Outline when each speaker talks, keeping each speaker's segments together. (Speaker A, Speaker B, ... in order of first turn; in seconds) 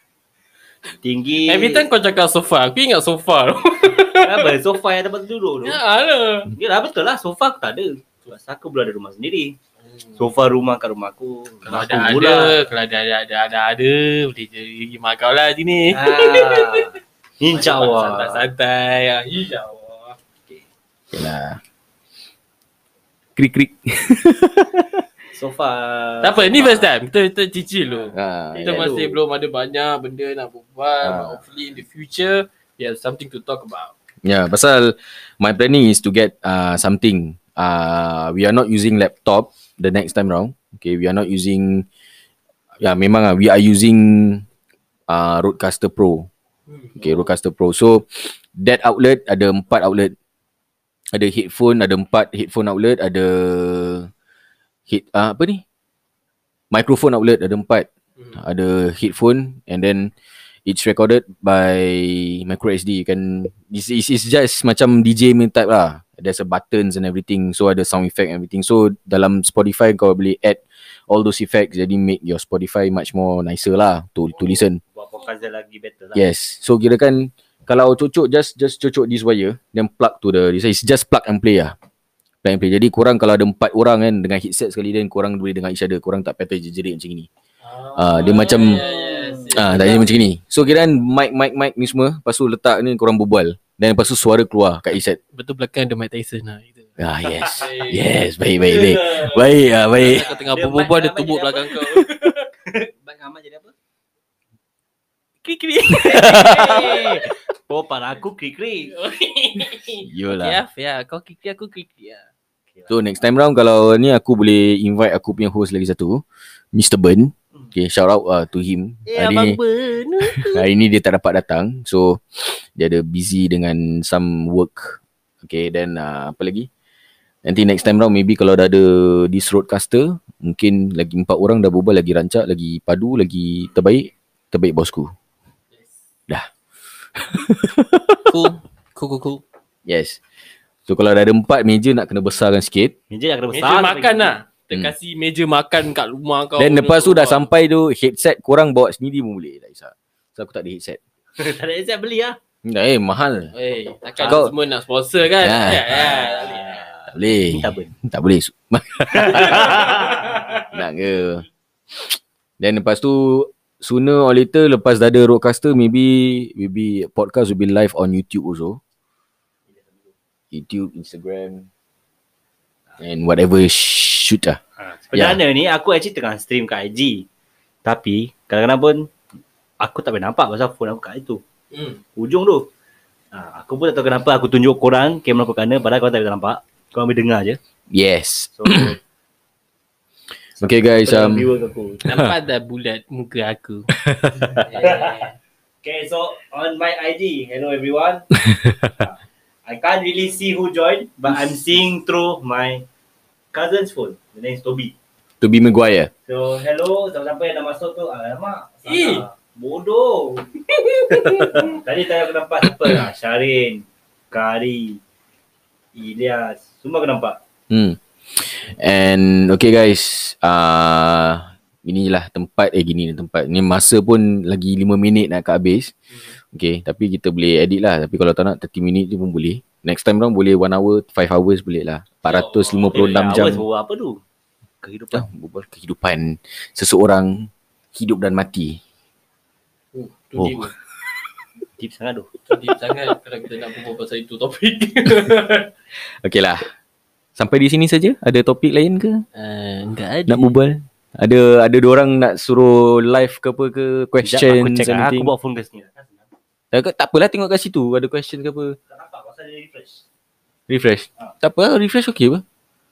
Speaker A: 1.0-1.9, 4.2-5.8, 6.5-9.6, 10.2-12.6, 15.9-18.5, 25.3-26.9, 28.5-29.1, 74.9-76.3, 88.5-90.0, 97.3-97.6, 100.0-102.1, 102.6-103.7, 105.9-108.9, 143.1-144.3, 151.4-152.4, 154.2-154.5, 155.8-157.9, 159.1-160.7, 169.7-170.1, 174.8-177.3, 177.8-179.1, 179.8-181.4, 182.2-182.7, 183.3-187.6, 188.6-189.0, 190.6-192.2, 194.7-195.3, 195.8-198.2, 199.0-202.8, 203.5-204.9, 206.3-210.5, 211.1-215.0, 215.9-217.4, 232.9-234.2, 234.8-235.3, 241.8-242.3, 254.2-256.3, 258.9-260.0
Speaker B: 1.4-4.5, 5.6-6.5, 9.8-10.3, 11.6-16.9, 17.5-20.1, 26.2-33.9, 46.7-47.3, 87.6-90.3, 95.3-96.9, 97.5-102.5, 105.4-107.2, 108.9-112.3, 119.1-120.6, 135.7-136.1, 138.3-139.4, 143.5-147.5, 153.5-156.8, 159.4-160.4, 181.7-182.0, 192.0-193.9, 194.6-195.3, 208.8-209.2, 210.9-211.7, 232.2-233.2, 239.9-240.7, 242.5-245.7, 249.3-250.6
Speaker C: 21.1-21.6, 23.4-25.0, 28.1-29.1, 31.0-31.4, 34.2-41.9, 42.8-44.4, 45.1-46.3, 47.0-50.1, 51.1-54.1, 54.9-55.6, 56.7-60.1, 60.6-74.8, 76.1-81.7, 82.4-87.3, 88.0-88.8, 89.5-95.2, 97.0-100.3, 106.0-106.8, 110.0-110.6, 112.9-116.2, 116.7-119.6, 120.4-126.7, 127.4-135.1, 137.2-138.3, 139.8-140.2, 140.9-142.9, 146.6-151.0, 152.6-153.5, 154.2-154.5, 155.4-156.2, 157.1-159.8, 160.7-168.8, 170.5-171.7, 173.0-174.6, 175.1-175.4, 187.9-188.9, 190.6-191.5, 192.0-192.3, 194.0-194.6, 198.4-198.9, 205.4-206.1, 217.7-225.9, 226.5-233.6, 235.1-238.8, 240.4-240.7, 246.2-246.7, 247.3-249.2, 250.3-255.3, 256.7-258.8, 260.7-262.4